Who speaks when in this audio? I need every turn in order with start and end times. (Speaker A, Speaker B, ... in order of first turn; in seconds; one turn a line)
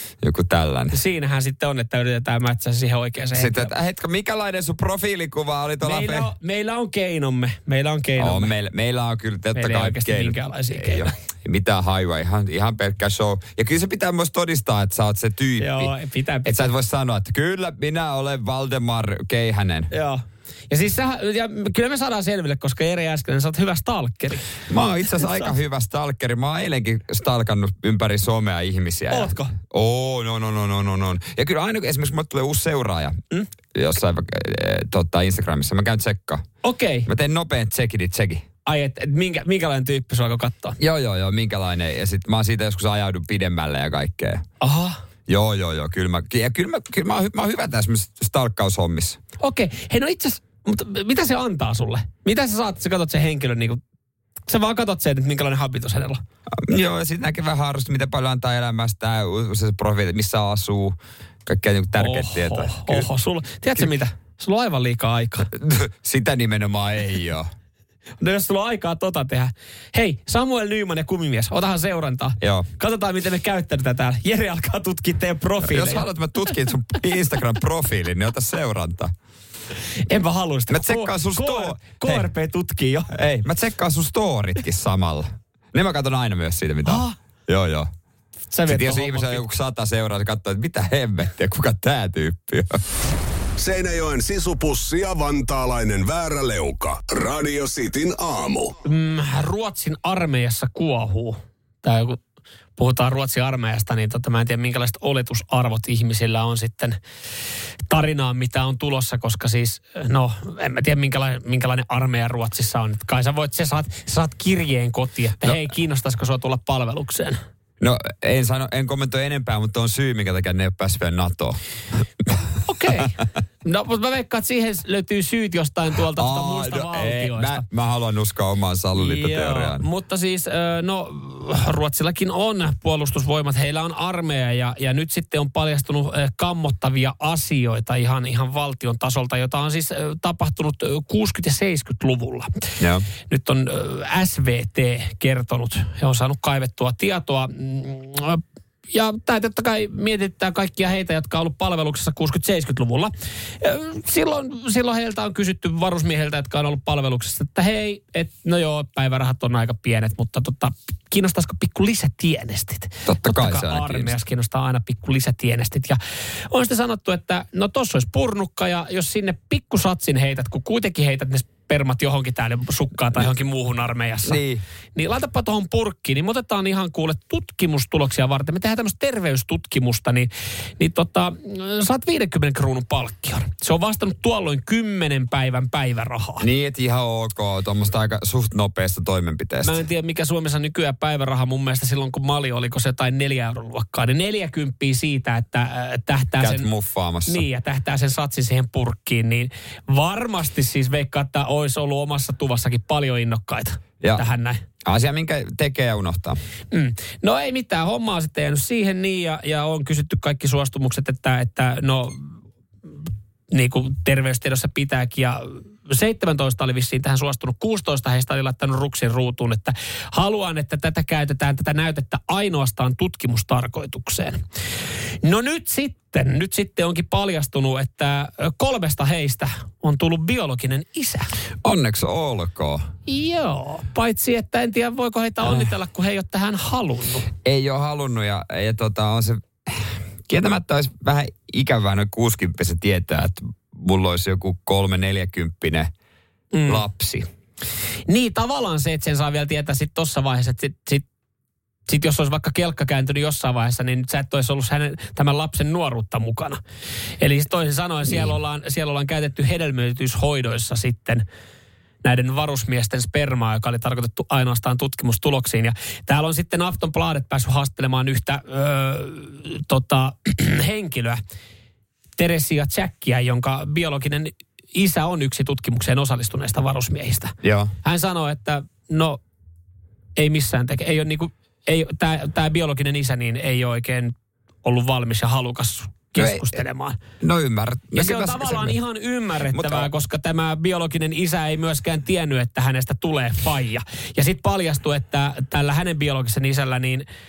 Speaker A: 0.2-1.0
Speaker B: 0.9-3.7
Speaker A: 3.3-6.3
Speaker B: 5.8-8.5
Speaker A: 8.2-19.9
Speaker B: 9.6-11.1
Speaker B: 15.6-16.7
Speaker B: 19.9-24.5
Speaker A: 24.7-33.2
Speaker B: 25.2-25.5
Speaker B: 29.1-29.5
Speaker A: 33.7-36.5
Speaker B: 36.6-37.1
Speaker A: 37.1-38.5
Speaker B: 38.6-40.8
Speaker A: 40.8-44.4
Speaker B: 44.6-45.0
Speaker A: 45.3-49.2
Speaker B: 49.4-53.8
Speaker B: 54.5-56.2
Speaker A: 56.5-63.1
Speaker B: 62.0-65.5
Speaker A: 65.5-67.5
Speaker B: 68.2-76.0
Speaker A: 72.4-72.7
Speaker A: 75.6-79.1
Speaker B: 80.0-83.1
Speaker A: 80.7-82.3
Speaker A: 83.1-87.9
Speaker B: 86.8-87.2
Speaker B: 88.5-89.4
Speaker A: 88.7-92.8
Speaker C: 93.6-98.7
Speaker B: 98.8-102.2
Speaker B: 102.8-107.0
Speaker B: 107.9-117.4
Speaker A: 117.8-121.6
Speaker B: 122.7-127.7
Speaker A: 126.1-129.8
Speaker B: 129.0-142.6
Speaker A: 142.8-143.1
Speaker B: 143.3-166.0
Speaker A: 163.1-164.2
Speaker B: 166.5-174.4
Speaker A: 174.2-174.6
Speaker B: 174.9-186.5
Speaker A: 186.4-189.8
Speaker B: 189.6-196.7
Speaker A: 196.4-197.5
Speaker B: 197.3-204.6
Speaker A: 204.8-206.4
Speaker B: 206.7-212.4
Speaker B: 213.5-224.4
Speaker B: 225.2-231.3
Speaker A: 231.6-232.9
Speaker B: 233.1-237.3
Speaker A: 235.4-235.7
Speaker A: 237.4-245.9
Speaker B: 246.5-246.8
Speaker A: 246.7-247.3
Speaker B: 248.1-251.1
Speaker B: 251.9-256.6
Speaker B: 257.2-261.2
Speaker B: 262.0-271.2
Speaker B: 272.2-279.2
Speaker A: 277.4-277.7
Speaker B: 280.2-287.0
Speaker A: 286.2-286.6
Speaker A: 287.2-288.8
Speaker B: 287.9-297.1
Speaker A: 289.5-289.9